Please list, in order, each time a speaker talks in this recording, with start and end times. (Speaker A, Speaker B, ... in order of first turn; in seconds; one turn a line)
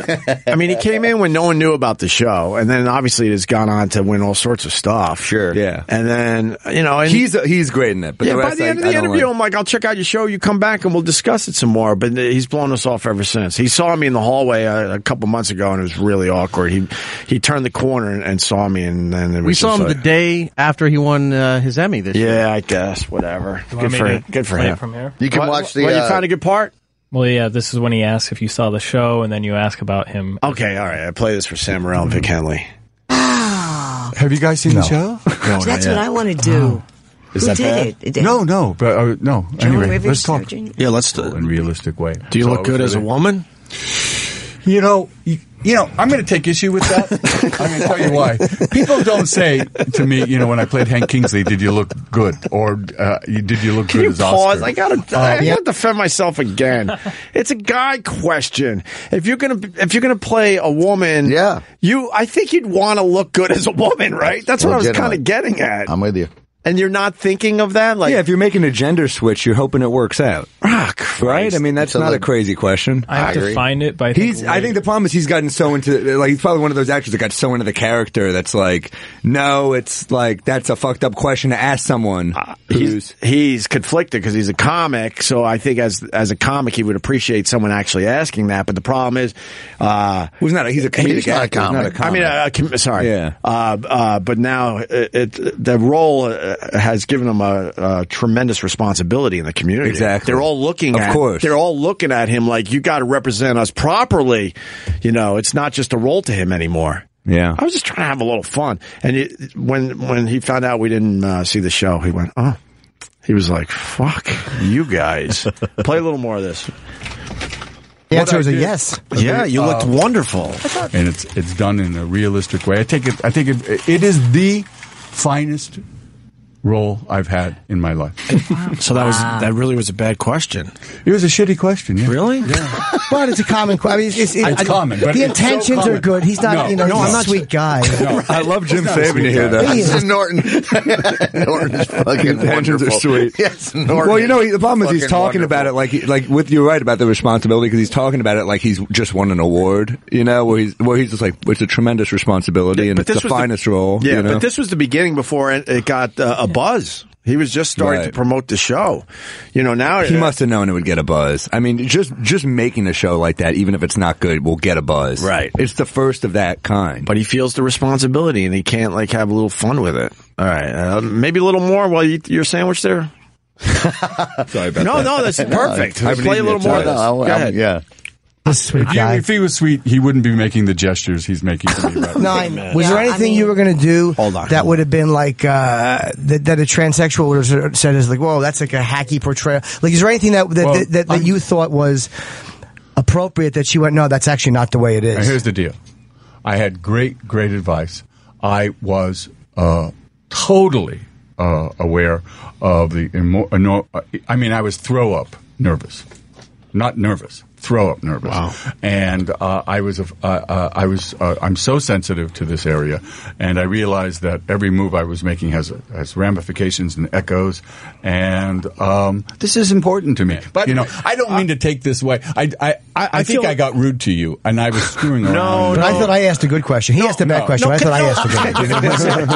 Speaker A: 0.5-5.3
Speaker B: 5.2-5.6
Speaker C: 5.5-5.8
Speaker A: 5.9-7.3
Speaker C: 7.1-9.3
Speaker A: 8.2-20.0
Speaker D: 19.4-22.4
Speaker A: 22.1-26.7
Speaker E: 23.7-25.2
Speaker B: 25.2-26.2
Speaker E: 27.1-30.6
Speaker A: 30.4-32.7
Speaker F: 34.2-35.3
Speaker G: 34.7-35.0
Speaker A: 35.4-36.1
Speaker H: 35.6-36.8
Speaker F: 36.5-36.7
Speaker A: 37.4-37.9
Speaker H: 37.4-38.4
Speaker F: 38.2-40.5
Speaker H: 39.6-40.7
Speaker A: 40.8-41.4
Speaker F: 41.1-43.1
Speaker A: 42.3-43.5
Speaker F: 44.6-55.5
Speaker A: 53.9-65.9
Speaker B: 61.2-61.6
Speaker B: 64.5-65.2
Speaker B: 65.9-66.3
Speaker A: 66.7-68.2
Speaker C: 68.0-70.5
Speaker A: 70.6-71.6
Speaker C: 71.2-73.1
Speaker B: 71.8-72.3
Speaker E: 73.1-74.8
Speaker B: 73.1-73.6
Speaker C: 74.1-83.1
Speaker A: 82.3-90.3
Speaker C: 90.4-92.3
Speaker B: 90.9-92.3
Speaker A: 92.0-112.6
Speaker C: 93.0-93.3
Speaker C: 99.8-101.5
Speaker C: 107.2-107.6
Speaker A: 113.3-116.7
Speaker G: 118.1-119.1
Speaker F: 118.1-119.9
Speaker A: 119.1-120.7
Speaker F: 120.9-125.8
Speaker F: 126.6-128.4
Speaker A: 128.7-130.7
Speaker F: 131.1-132.8
Speaker A: 132.0-132.5
Speaker G: 133.1-138.2
Speaker F: 134.3-139.8
Speaker A: 136.9-137.3
Speaker C: 138.3-140.0
Speaker G: 139.6-140.0
Speaker B: 139.6-145.8
Speaker C: 142.2-143.4
Speaker C: 143.9-154.5
Speaker A: 152.7-160.4
Speaker C: 157.8-158.1
Speaker C: 160.0-167.1
Speaker A: 165.2-165.6
Speaker A: 167.0-173.1
Speaker B: 173.7-174.5
Speaker C: 174.5-177.1
Speaker A: 174.8-177.6
Speaker B: 175.4-177.8
Speaker G: 178.4-179.3
Speaker F: 178.7-182.7
Speaker A: 182.2-183.2
Speaker G: 182.2-192.1
Speaker H: 182.8-183.4
Speaker A: 184.2-184.8
Speaker F: 190.6-191.4
Speaker G: 193.0-195.4
Speaker F: 195.1-195.8
Speaker F: 196.4-206.1
Speaker F: 206.7-226.2
Speaker A: 208.2-208.5
Speaker A: 220.7-221.4
Speaker A: 223.0-223.6
Speaker A: 225.1-226.2
Speaker G: 225.7-229.2
Speaker F: 227.0-228.1
Speaker A: 227.6-229.2